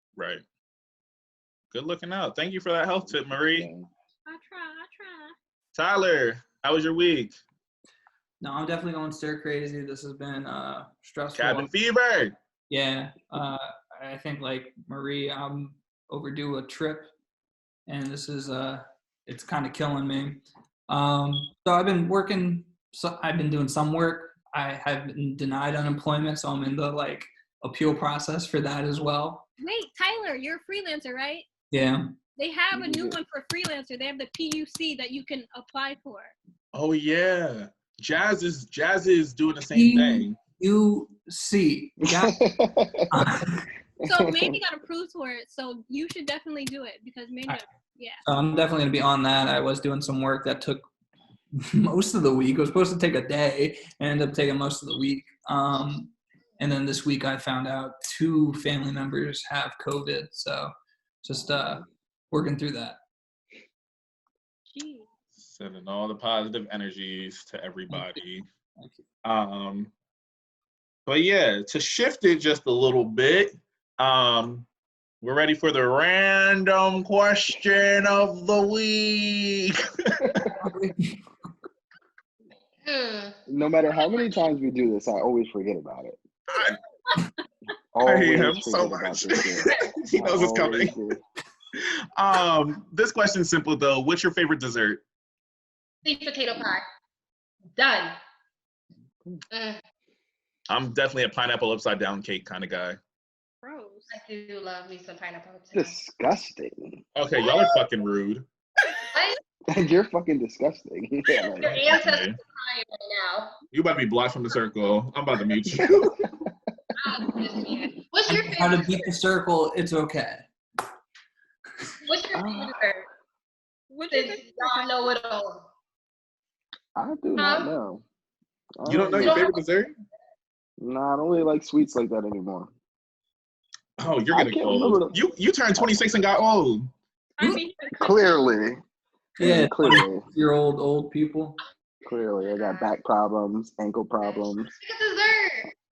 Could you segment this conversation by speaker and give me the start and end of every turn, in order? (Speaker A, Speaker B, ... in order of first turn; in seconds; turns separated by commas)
Speaker A: 0.2-0.4, Speaker A: 1.7-3.7, Speaker B: 3.0-3.9, Speaker C: 4.2-5.3, Speaker A: 5.7-7.4, Speaker D: 8.4-11.7, Speaker A: 11.3-12.3, Speaker D: 12.7-17.1, Speaker D: 17.9-29.4, Speaker C: 29.6-31.5, Speaker D: 31.7-32.0, Speaker C: 32.4-36.3, Speaker B: 32.7-33.2, Speaker A: 36.7-40.4, Speaker D: 39.7-42.4, Speaker B: 42.1-43.1, Speaker D: 43.1-43.7, Speaker B: 44.0-44.5, Speaker C: 44.0-48.2, Speaker D: 48.2-50.9, Speaker D: 51.6-60.7, Speaker D: 61.2-63.0, Speaker B: 61.4-61.8, Speaker C: 64.7-65.1, Speaker A: 65.4-68.5, Speaker D: 67.9-68.2, Speaker D: 68.8-69.0, Speaker A: 69.2-69.9, Speaker A: 71.0-74.7, Speaker A: 75.2-80.5, Speaker D: 80.6-81.2, Speaker E: 82.8-83.3, Speaker B: 83.5-86.2, Speaker A: 86.5-86.8, Speaker B: 87.9-91.2, Speaker A: 88.0-90.9, Speaker A: 91.8-95.0, Speaker E: 96.0-96.8, Speaker E: 97.7-98.2, Speaker E: 99.5-99.8, Speaker A: 100.7-103.0, Speaker C: 103.6-104.2, Speaker E: 104.1-106.0, Speaker B: 105.7-107.0, Speaker A: 107.2-108.5, Speaker B: 109.7-111.8, Speaker E: 111.4-113.5, Speaker A: 111.6-112.4, Speaker A: 113.7-116.2, Speaker E: 117.0-119.2, Speaker D: 118.2-120.5, Speaker E: 122.0-123.1, Speaker B: 122.3-122.8, Speaker C: 123.9-125.1, Speaker E: 124.1-125.7, Speaker B: 127.0-128.0, Speaker E: 127.3-127.7, Speaker B: 128.8-129.4, Speaker A: 128.8-129.9, Speaker E: 129.2-129.6, Speaker B: 130.8-132.7, Speaker A: 134.0-136.9, Speaker B: 134.3-135.2, Speaker B: 135.7-136.0, Speaker C: 137.4-138.5, Speaker B: 138.0-138.8, Speaker D: 139.4-141.6, Speaker B: 139.4-140.2, Speaker B: 142.1-144.7, Speaker E: 142.4-142.9, Speaker E: 144.2-145.7